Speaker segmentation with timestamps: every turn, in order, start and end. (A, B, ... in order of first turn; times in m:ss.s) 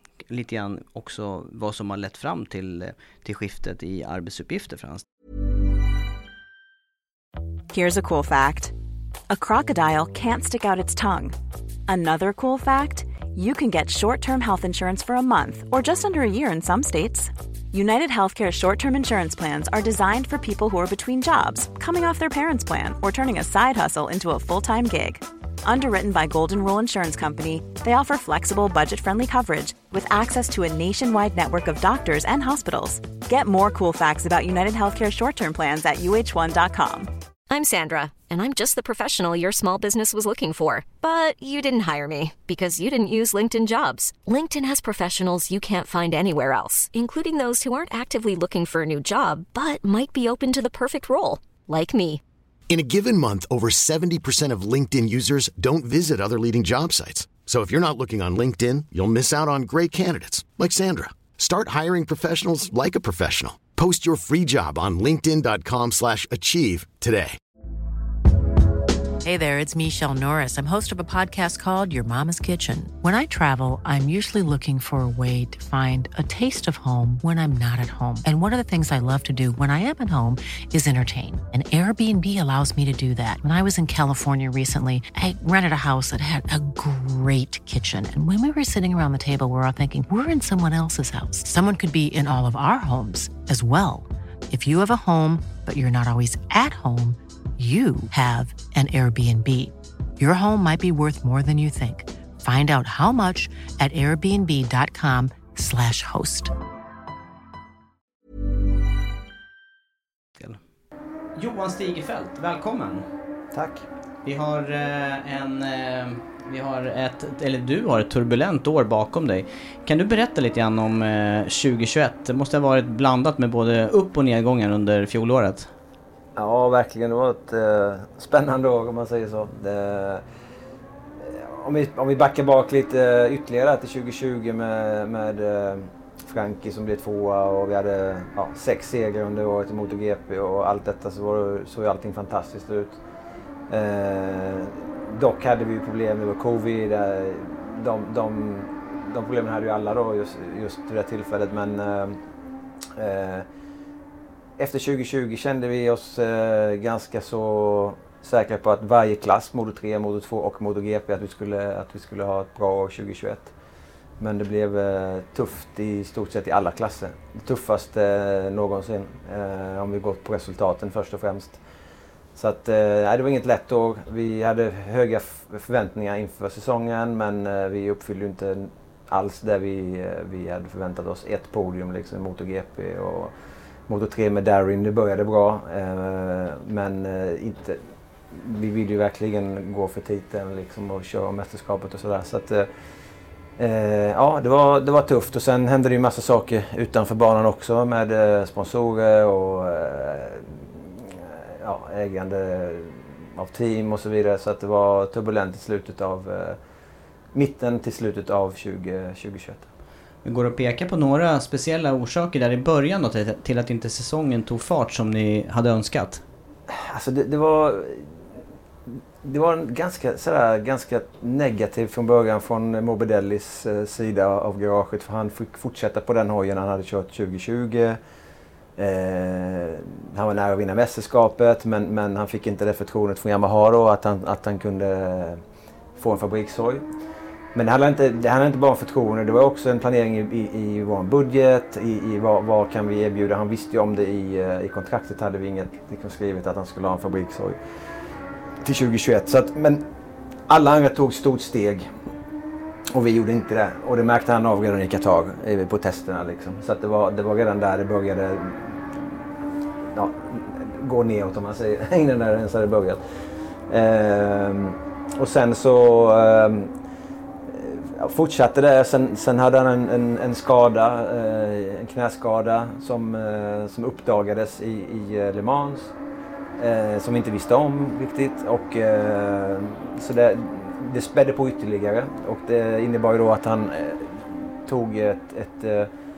0:00.3-0:05.0 A
0:07.7-0:08.7 B
0:09.3-0:11.4 B
0:11.9-0:37.1 B
0:37.5-0:52.2 C
0:52.7-1:07.4 D
1:09.2-1:46.5 E
1:51.4-1:53.0 A
1:53.5-1:53.8 F
1:54.2-2:05.7 A
2:06.4-2:10.2 F
2:11.2-2:23.0 F
2:23.7-2:32.2 F
2:33.0-2:33.5 F
2:34.6-2:43.5 F
2:44.2-2:51.6 F
2:52.4-3:03.3 F
3:03.9-3:12.7 F
3:13.6-3:26.6 F
3:27.3-3:29.7 F
3:30.2-3:36.2 A
3:36.7-3:38.1 F
3:38.9-3:48.0 F
3:48.8-3:55.4 F
3:56.0-3:56.8 F
3:57.5-4:07.6 F
4:08.6-4:09.8 F
4:10.5-4:11.9 F
4:12.9-4:19.1 F
4:19.9-4:23.0 F
4:23.7-4:26.7 F
4:27.5-4:35.9 F
4:36.6-4:45.9 F